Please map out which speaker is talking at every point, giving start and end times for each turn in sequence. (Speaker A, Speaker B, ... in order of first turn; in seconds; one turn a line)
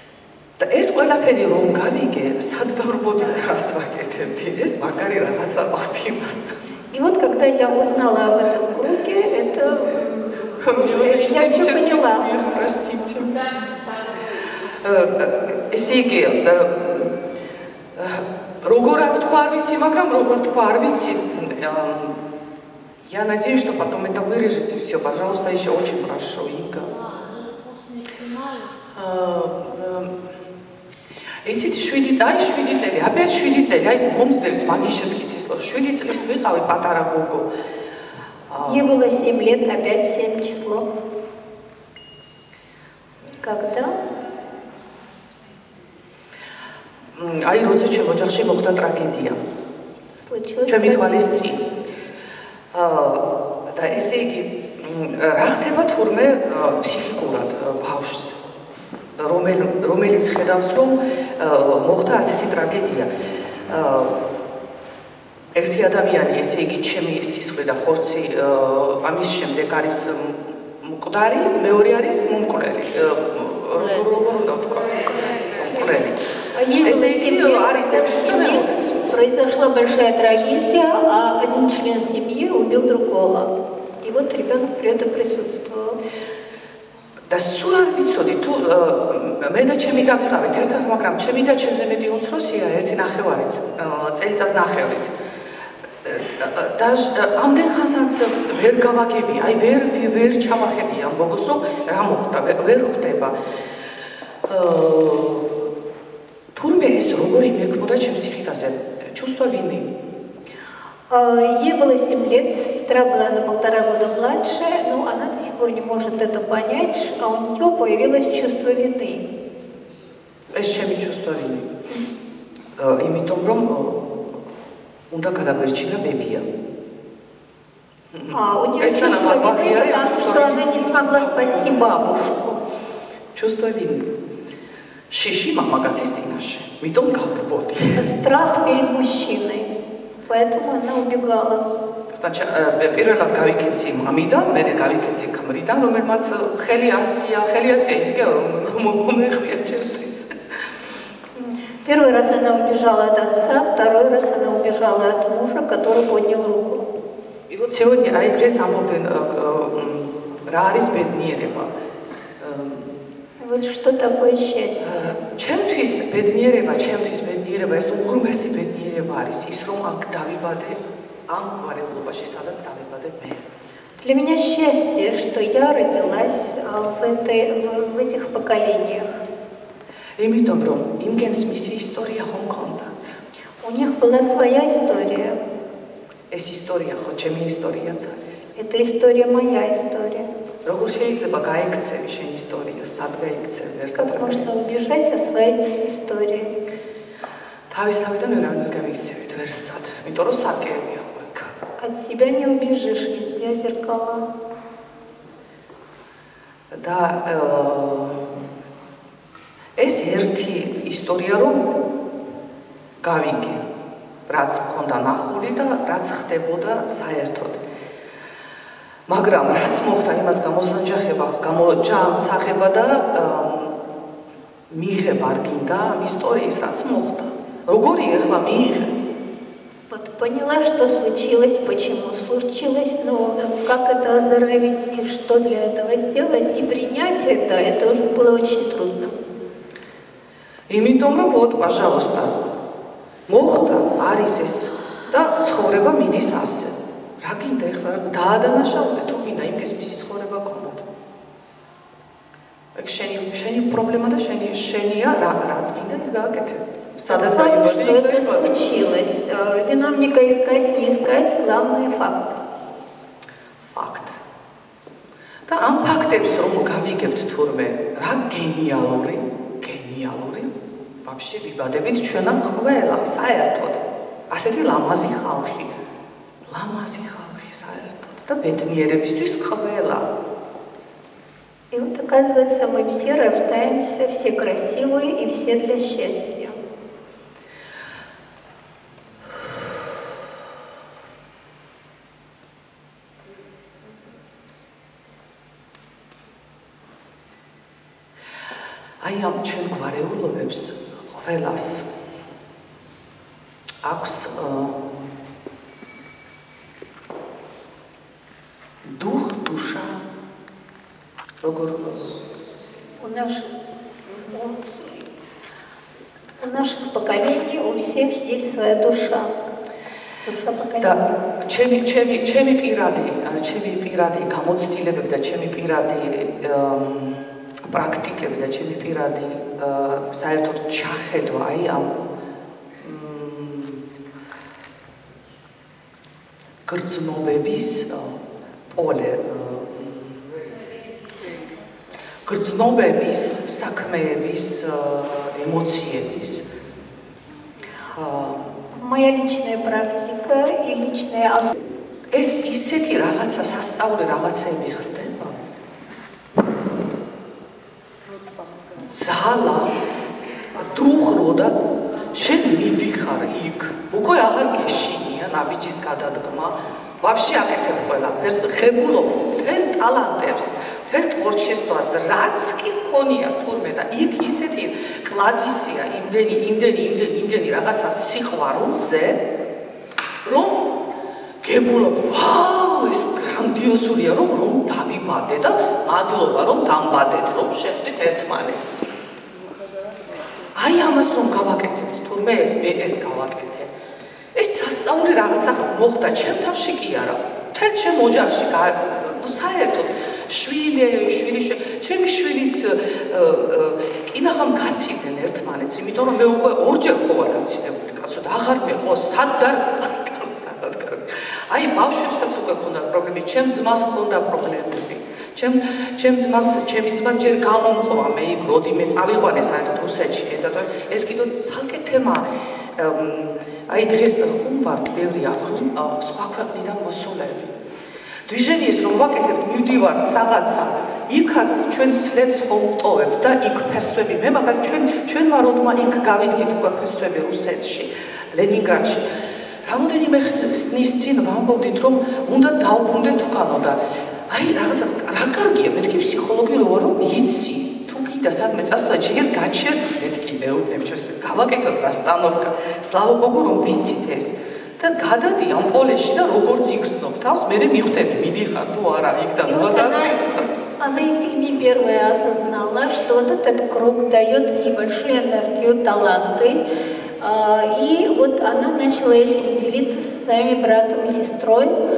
Speaker A: 0.6-6.4
Speaker B: 6.9-12.3
Speaker A: 10.6-13.4
Speaker A: 14.7-17.2
Speaker A: 17.9-22.2
Speaker A: 23.0-27.0
Speaker A: 28.9-30.2
Speaker A: 31.4-37.5
Speaker A: 38.5-38.9
Speaker B: 38.6-40.9
Speaker B: 43.4-44.0
Speaker A: 47.1-49.4
Speaker B: 50.2-51.4
Speaker A: 50.7-51.6
Speaker A: 52.7-58.4
Speaker A: 59.2-64.2
Speaker A: 65.5-76.2
Speaker B: 76.5-86.0
Speaker A: 76.8-79.1
Speaker A: 87.3-95.1
Speaker A: 96.0-103.3
Speaker A: 104.4-105.7
Speaker A: 106.5-109.9
Speaker B: 111.1-119.2
Speaker A: 120.5-121.7
Speaker A: 122.8-124.0
Speaker A: 125.1-126.5
Speaker A: 128.1-131.8
Speaker B: 128.3-132.6
Speaker A: 133.3-134.1
Speaker A: 135.1-138.1
Speaker B: 138.0-139.7
Speaker B: 140.3-141.6
Speaker A: 142.1-150.7
Speaker B: 151.3-156.9
Speaker A: 157.5-161.7
Speaker A: 162.4-162.9
Speaker B: 163.4-165.2
Speaker A: 164.8-173.5
Speaker B: 174.0-179.2
Speaker A: 180.2-183.2
Speaker B: 183.6-185.4
Speaker A: 186.3-188.5
Speaker B: 188.6-190.3
Speaker A: 190.6-194.5
Speaker B: 193.9-196.5
Speaker A: 197.7-201.5
Speaker B: 201.8-204.3
Speaker A: 206.7-208.3
Speaker A: 209.8-211.7
Speaker A: 213.0-213.6
Speaker A: 214.3-217.6
Speaker A: 219.1-223.8
Speaker A: 224.7-228.9
Speaker B: 229.9-239.2
Speaker A: 240.7-242.4
Speaker A: 243.3-250.8
Speaker A: 252.7-258.5
Speaker B: 257.1-262.4
Speaker A: 263.6-264.2
Speaker A: 265.5-275.8
Speaker A: 276.5-280.1
Speaker B: 281.7-286.6
Speaker A: 299.0-301.9
Speaker A: 303.8-304.8
Speaker A: 308.8-310.0
Speaker A: 311.4-312.2
Speaker B: 313.0-313.5
Speaker B: 314.1-315.1
Speaker B: 316.4-319.3
Speaker B: 320.2-321.1
Speaker A: 320.8-332.1
Speaker A: 332.8-333.9
Speaker A: 336.6-338.2
Speaker A: 338.7-340.5
Speaker A: 342.2-346.4
Speaker A: 347.9-348.5
Speaker B: 348.7-351.5
Speaker A: 352.1-355.4
Speaker A: 358.7-359.8
Speaker A: 360.5-361.6
Speaker A: 362.1-379.2
Speaker A: 380.2-380.8
Speaker A: 381.4-388.9
Speaker A: 390.5-393.7
Speaker A: 394.3-427.6
Speaker A: 428.2-460.8
Speaker B: 459.4-460.2
Speaker B: 460.8-466.6
Speaker B: 467.2-471.8